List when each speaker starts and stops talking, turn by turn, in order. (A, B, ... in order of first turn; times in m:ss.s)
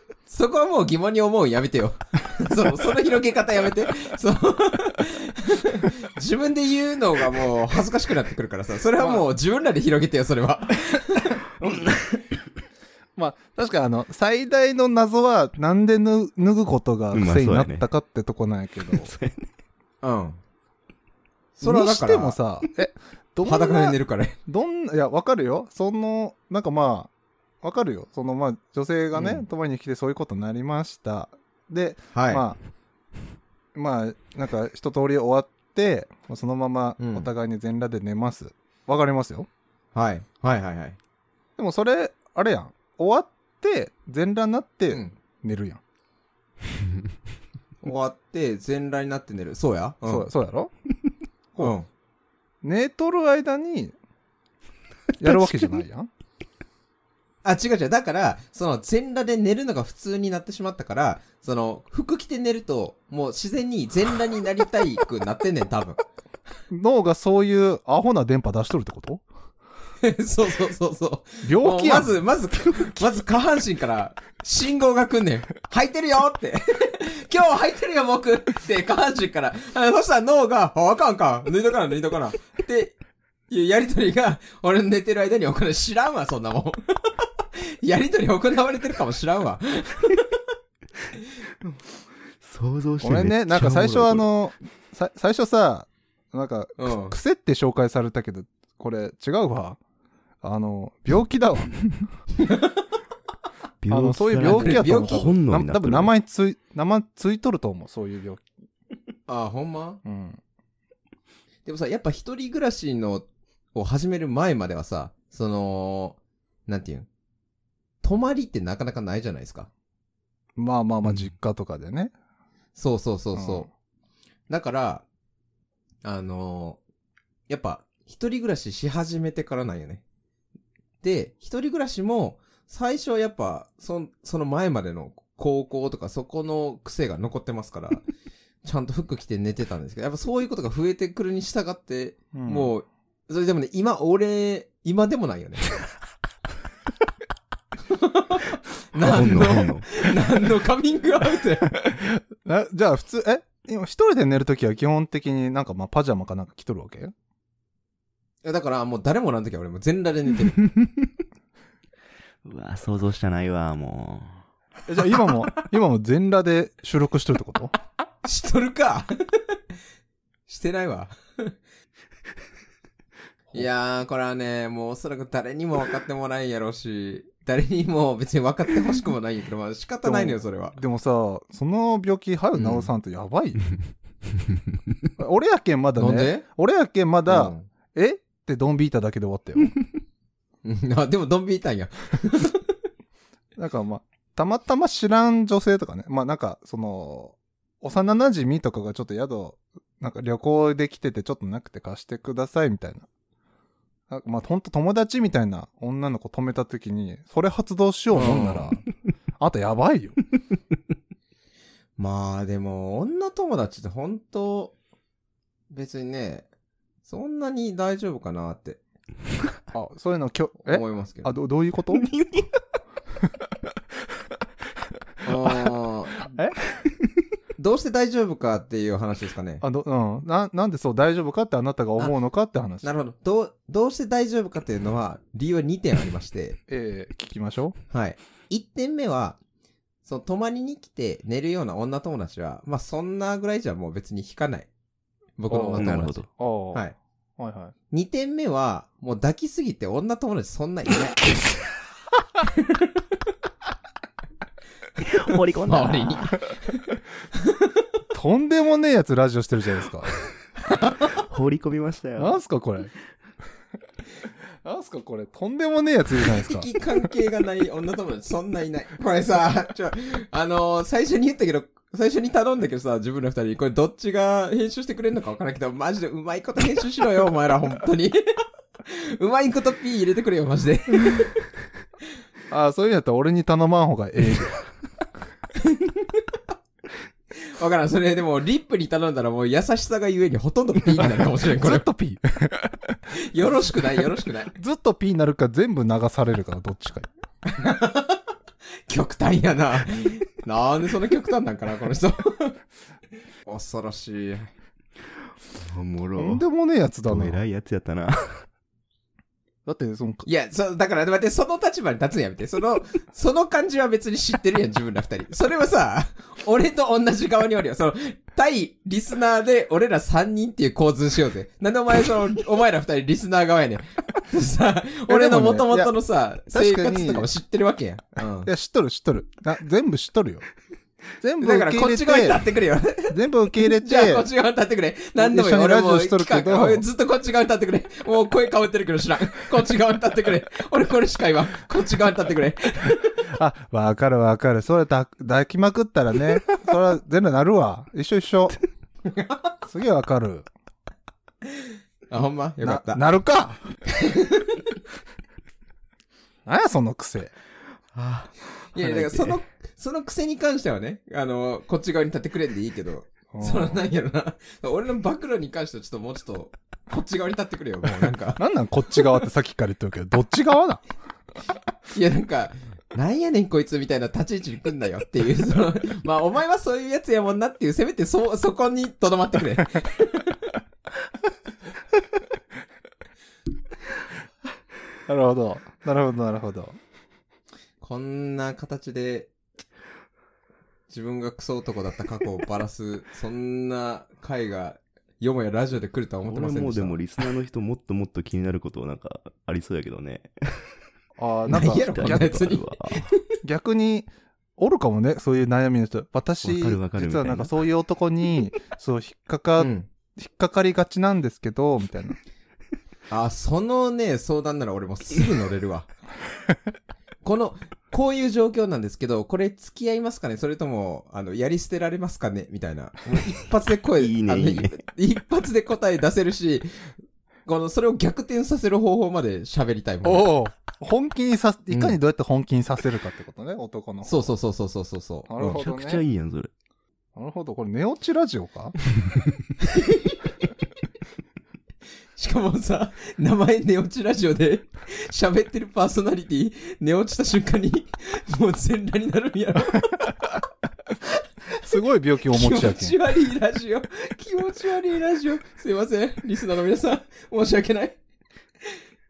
0:00.3-0:11.4 A
0:09.0-0:09.3 B
0:13.2-0:19.1 B
0:17.1-0:17.9 C
0:18.9-0:19.5 C
0:20.0-0:20.4 A
0:21.6-0:22.4 A
0:21.6-0:27.1 B
0:23.4-0:24.4 A
0:27.6-0:32.6 B
0:29.1-0:29.4 A
0:32.1-0:32.4 A
0:33.8-0:39.5 B
0:37.0-0:37.3 A
0:39.9-0:41.0 A
0:41.6-0:45.8 B
0:47.8-0:50.3 A
0:50.1-0:50.7 B
0:51.6-0:51.9 A
0:52.6-0:53.9 B
0:55.2-0:56.1 B
0:57.4-1:06.0 A
1:06.7-1:09.2 B
1:10.0-1:23.0 A
1:11.4-1:12.1 B
1:23.5-1:30.2 A
1:32.4-1:34.3 C
1:33.0-1:39.8 B
1:36.8-1:37.2 A
1:40.4-1:41.8 B
1:42.4-1:42.7 A
1:43.8-1:46.1 C
1:43.9-1:48.4 B
1:44.5-1:45.4 A
1:49.3-1:50.0 A
1:50.0-1:50.4 B
1:51.6-1:57.1 A
1:58.0-1:59.7 A
2:00.6-2:02.1 B
2:02.8-2:03.7 A
2:03.4-2:03.7 B
2:04.5-2:05.0 A
2:06.0-2:06.8 A
2:07.5-2:10.0 A
2:11.0-2:18.1 A
2:18.6-2:25.7 A
2:22.3-2:22.7 B
2:27.9-2:31.7 A
2:29.0-2:29.9 C
2:31.8-2:37.1 B
2:38.4-2:40.6 A
2:42.4-2:44.5 C
2:44.9-2:47.7 B
2:48.2-2:49.4 A
2:50.5-2:51.5 A
2:53.5-3:00.8 A
3:00.0-3:03.7 B
3:02.5-3:02.9 A
3:05.2-3:09.8 B
3:06.0-3:06.4 A
3:07.3-3:07.7 A
3:10.6-3:12.6 A
3:13.6-3:23.1 B
3:24.1-3:28.8 B
3:28.1-3:28.7 A
3:29.4-3:30.2 B
3:32.0-3:34.8 A
3:35.7-3:36.5 A
3:37.0-3:38.8 A
3:39.7-3:42.1 B
3:40.7-3:41.4 A
3:41.9-3:42.8 C
3:45.2-3:46.2 A
3:46.8-3:47.3 C
3:47.6-3:49.6 A
3:49.6-3:52.8 B
3:52.8-3:56.6 A
3:56.7-3:57.8 B
3:57.9-3:59.4 A
4:00.0-4:04.7 A
4:05.4-4:07.0 A
4:05.5-4:06.9 B
4:05.8-4:06.3 C
4:07.4-4:07.7 B
4:07.9-4:11.2 A
4:15.0-4:16.4 C
4:15.7-4:16.4 A
4:18.1-4:20.2 B
4:20.8-4:21.1 A
4:21.1-4:22.4 C
4:22.2-4:22.9 B
4:24.6-4:26.7 B
4:26.4-4:38.3 A
4:38.8-4:41.3 A
4:42.5-4:44.7 B
4:45.6-4:46.2 A
4:47.4-4:51.8 A
4:51.6-4:53.0 B
4:53.2-4:54.5 A
4:54.6-4:57.1 B
4:57.5-4:58.2 A
4:58.9-5:02.6 A
5:03.4-5:04.5 A
5:05.5-5:06.4 C
5:06.2-5:07.4 B
5:07.1-5:08.5 C
5:09.7-5:10.3 B
5:10.2-5:28.5 A
5:25.1-5:25.9 B
5:26.5-5:27.3 B
5:28.5-5:30.5 B
5:31.2-5:32.4 B
5:31.4-5:43.1 A
5:33.0-5:34.3 B
5:35.2-5:36.8 B
5:43.3-5:48.6 B
5:49.1-5:49.4 A
5:49.7-5:50.5 B
5:52.1-5:53.0 A
5:52.6-5:53.7 B
5:54.0-5:54.6 A
5:56.5-5:57.3 B
5:57.9-5:59.4 C
5:58.7-6:08.4 A
6:03.3-6:03.8 B
6:08.4-6:10.8 B
6:11.9-6:20.4 A
6:25.1-6:26.8 B
6:27.8-6:29.3 A
6:30.9-6:37.0 A
6:36.3-6:40.8 C
6:41.2-6:42.5 B
6:41.5-6:43.1 C
6:41.5-6:43.1 A
6:43.4-6:52.2 B
6:46.4-6:47.5 C
6:49.6-6:49.9 A
6:53.1-6:55.9 A
6:57.2-7:10.3 A
7:04.0-7:04.8 C
7:10.0-7:14.3 B
7:11.7-7:12.0 A
7:14.0-7:15.3 A
7:15.3-7:16.0 B
7:15.4-7:16.5 C
7:17.2-7:18.8 B
7:19.6-7:20.2 A
7:22.2-7:30.1 A
7:31.7-7:33.0 B
7:32.3-7:38.0 A